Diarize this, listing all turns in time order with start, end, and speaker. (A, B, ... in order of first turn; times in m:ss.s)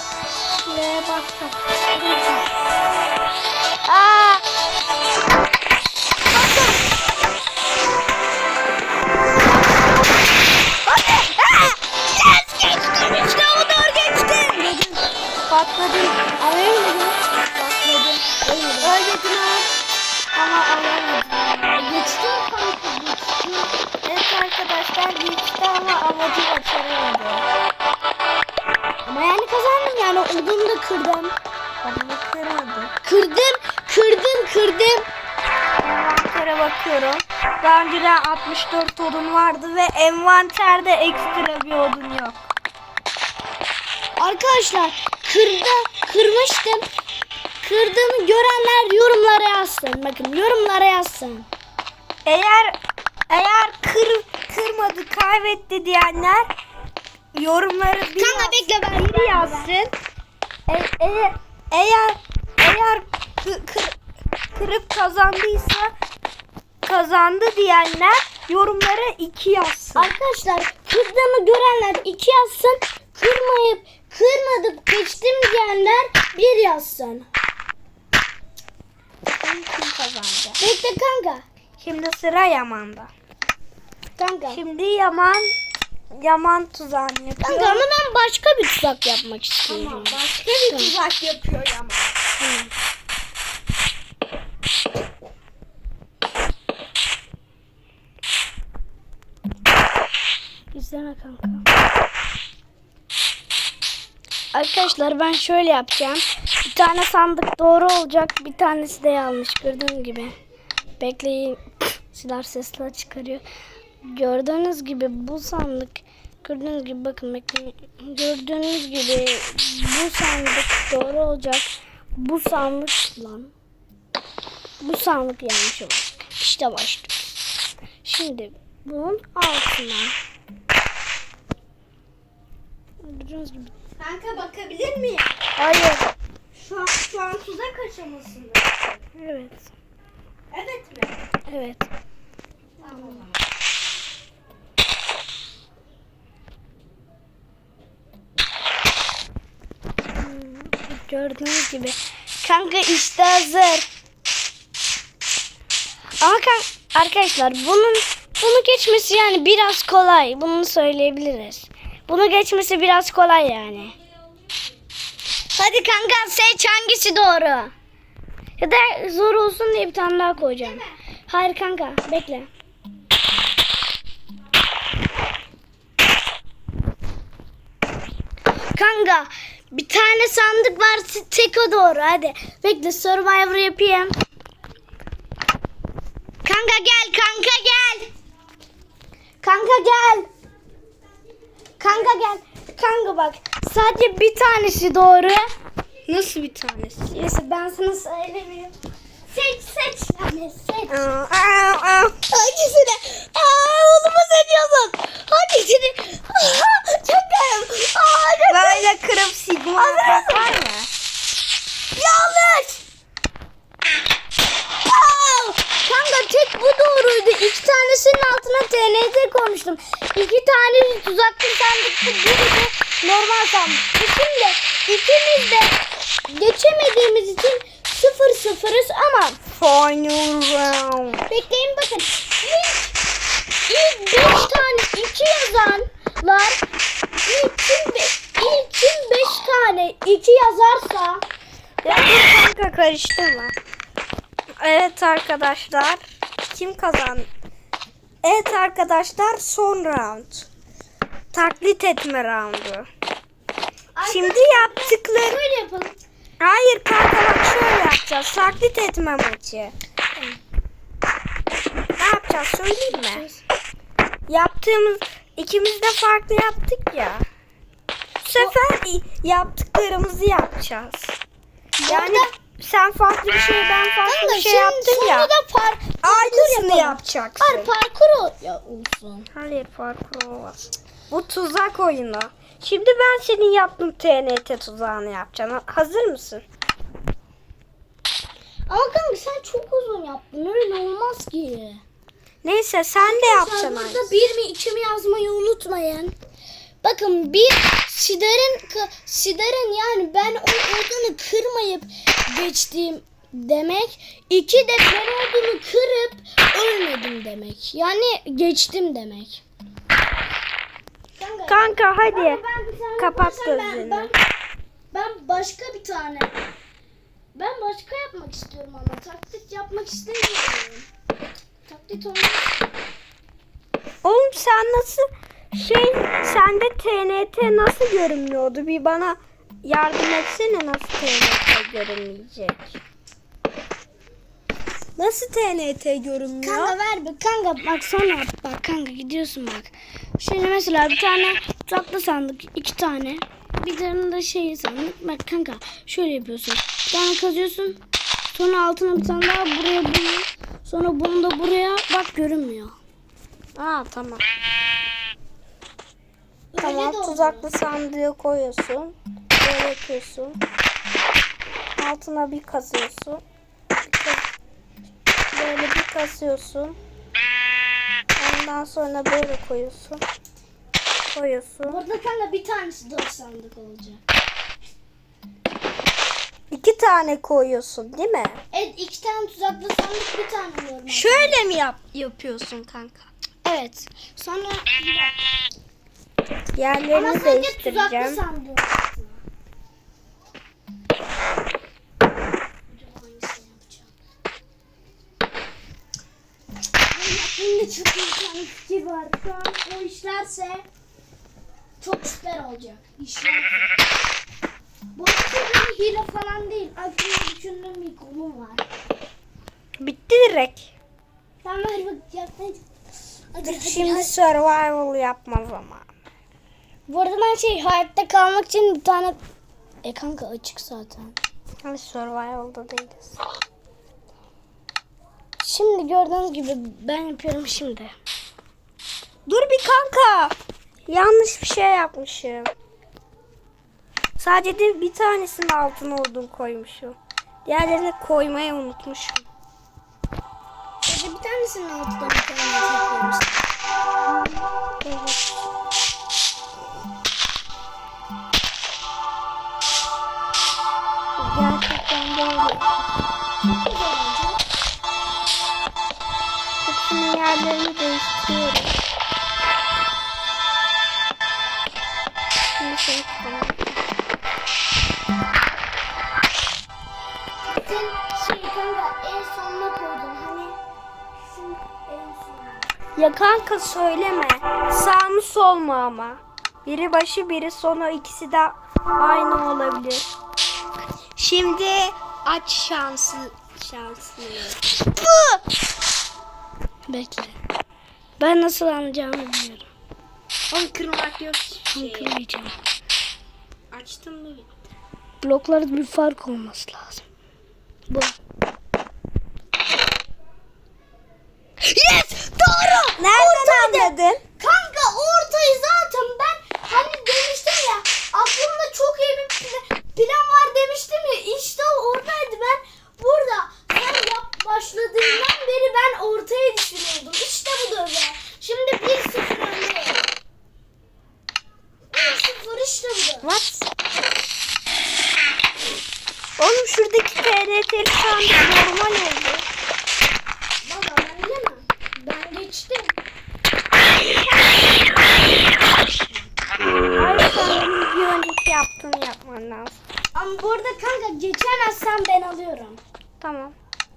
0:00.6-0:02.4 A
0:03.9-0:04.4 A
0:06.3-0:06.8 A
0:10.8-0:14.4 A
0:14.3-0:15.0 B
0:15.5-0:16.3 A
0:16.4-0:17.3 B
0:17.5-0:17.9 A
0:17.8-0:18.9 B
0:18.8-0:19.7 A
0:20.3-0:22.2 A
0:21.7-0:23.7 B
0:24.0-0:27.6 A
0:29.0-0:31.3 B
0:31.8-0:32.9 A
0:33.0-0:35.1 B
0:35.8-0:42.5 A
0:44.2-0:46.9 B
0:47.6-0:51.5 B
0:52.2-0:52.8 A
0:53.3-0:56.5 A
0:57.3-0:59.9 A
0:58.2-0:59.7 B
1:00.7-1:04.0 A
1:04.5-1:05.9 A
1:06.8-1:10.1 A
1:10.0-1:17.3 B
1:19.2-1:20.6 A
1:20.6-1:21.4 B
1:21.8-1:23.1 A
1:24.2-1:24.6 B
1:24.5-1:25.5 A
1:26.1-1:27.8 A
1:27.4-1:30.9 B
1:29.7-1:32.2 A
1:32.4-1:32.7 B
1:40.7-1:41.7 B
1:44.5-1:50.3 B
1:51.0-1:53.4 B
1:54.0-2:03.5 B
2:04.8-2:07.4 B
2:08.0-2:10.1 B
2:13.0-2:13.7 B
2:14.0-2:15.4 A
2:15.6-2:16.1 B
2:16.5-2:18.8 A
2:19.2-2:19.7 B
2:20.5-2:21.2 A
2:21.5-2:21.9 B
2:22.8-2:23.3 A
2:22.8-2:23.3 B
2:30.2-2:33.8 B
2:36.2-2:44.0 B
2:45.5-2:47.7 B
2:48.6-2:52.5 B
2:50.6-2:50.9 A
2:58.7-3:04.2 B
3:06.4-3:08.1 B
3:09.4-3:10.3 B
3:11.8-3:15.5 B
3:16.0-3:17.1 A
3:17.0-3:18.7 B
3:19.3-3:21.0 B
3:20.9-3:22.2 A
3:22.3-3:28.8 B
3:28.5-3:30.9 A
3:29.8-3:30.6 B
3:32.0-3:32.8 B
3:34.8-3:49.4 B
3:49.6-3:51.2 A
3:51.3-3:52.9 B
3:53.7-3:56.6 B
3:57.2-4:01.2 B
4:01.8-4:03.5 A
4:04.6-4:07.3 A
4:08.2-4:10.5 A
4:11.3-4:12.9 A
4:13.9-4:16.0 B
4:14.0-4:15.4 A
4:16.4-4:19.7 A
4:22.0-4:23.2 A
4:22.9-4:23.4 B
4:24.3-4:27.2 A
4:28.2-4:31.2 A
4:31.8-4:32.3 B
4:31.9-4:35.3 A
4:34.0-4:39.3 B
4:36.0-4:37.7 A
4:39.3-4:46.4 A
4:48.7-4:51.8 B
4:52.4-4:54.1 A
4:53.0-4:56.1 B
4:56.8-5:09.4 B
5:11.2-5:14.2 B
5:11.5-5:12.4 A
5:13.0-5:14.1 A
5:14.9-5:16.4 B
5:17.3-5:20.9 B
5:21.6-5:22.6 B
5:24.0-5:32.8 A
5:35.0-5:36.8 A
5:36.4-5:47.8 B
5:48.3-5:52.8 B
5:53.6-5:54.2 A
5:56.5-5:57.5 B
5:56.6-6:00.4 A
6:01.8-6:03.2 A
6:03.9-6:04.2 A
6:05.3-6:06.8 A
6:08.2-6:10.0 A
6:11.1-6:11.8 A
6:11.6-6:14.0 B
6:16.5-6:18.4 A
6:18.5-6:21.4 B
6:20.9-6:23.1 A
6:23.4-6:25.2 B
6:26.5-6:28.2 A
6:26.9-6:29.2 B
6:32.7-6:33.9 B
6:36.9-6:40.6 B
6:41.8-6:43.5 B
6:44.9-6:48.6 B
6:49.8-6:50.7 A
6:51.4-6:52.6 B
6:53.3-6:54.1 B
6:53.4-6:55.9 A
6:56.9-6:59.2 B
6:59.8-7:01.2 B
7:01.6-7:03.2 A
7:05.4-7:07.9 B
7:09.2-7:10.3 A
7:10.8-7:12.5 A
7:14.2-7:19.2 A
7:20.8-7:23.4 B
7:24.2-7:25.2 A
7:31.2-7:32.8 A
7:33.4-7:34.4 B
7:36.6-7:38.8 A
7:42.6-7:43.8 A
7:47.4-7:50.6 B
7:51.2-7:52.7 B
7:53.0-8:00.1 A
8:01.2-8:05.4 A
8:06.9-8:07.4 B
8:08.2-8:09.7 B
8:10.5-8:12.2 A
8:11.7-8:12.6 B
8:13.7-8:14.7 A
8:15.2-8:17.0 B
8:17.9-8:18.1 B
8:21.6-8:40.0 B
8:23.0-8:24.2 A
8:41.9-8:43.3 B
8:43.2-8:43.7 A
8:46.4-8:49.4 A
8:50.6-8:52.9 B
8:55.9-8:56.2 B
8:56.9-8:59.8 A
9:00.1-9:02.8 B
9:03.2-9:03.5 A